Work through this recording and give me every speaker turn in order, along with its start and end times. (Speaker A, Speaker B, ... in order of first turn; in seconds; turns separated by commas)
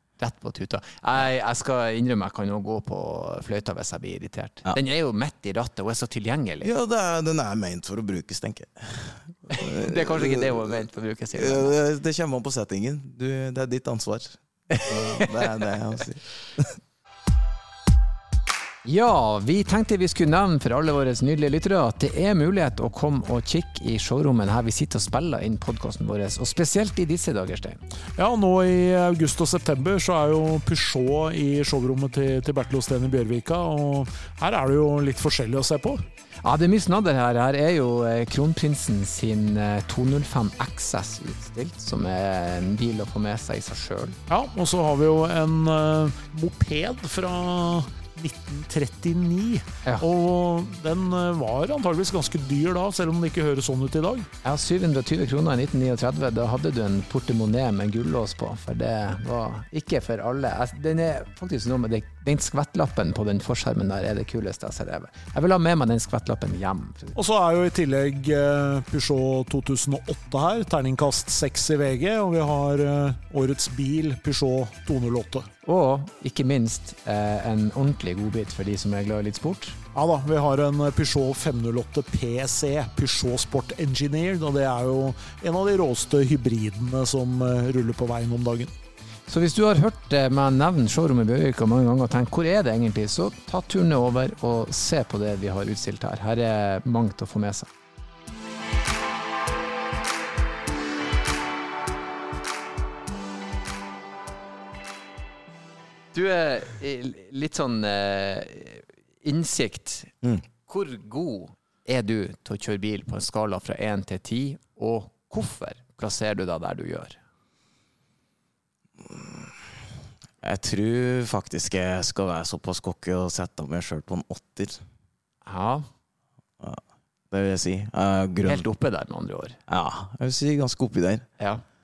Speaker A: 0.2-6.7, Speaker B: 6.6-16.8, Speaker A: 9.5-11.8, Speaker A: 14.7-15.5, Speaker A: 18.8-27.8, Speaker C: 28.2-36.0, Speaker A: 36.4-44.2, Speaker C: 44.3-54.3, Speaker A: 54.4-67.2, Speaker C: 67.2-75.5, Speaker A: 75.6-79.8, Speaker C: 79.9-88.7, Speaker A: 89.3-97.7, Speaker A: 106.1-117.2, Speaker B: 119.0-119.6, Speaker B: 120.4-124.8, Speaker A: 125.4-125.9, Speaker B: 126.6-128.7, Speaker A: 128.4-129.6, Speaker B: 129.7-131.2, Speaker A: 131.4-131.6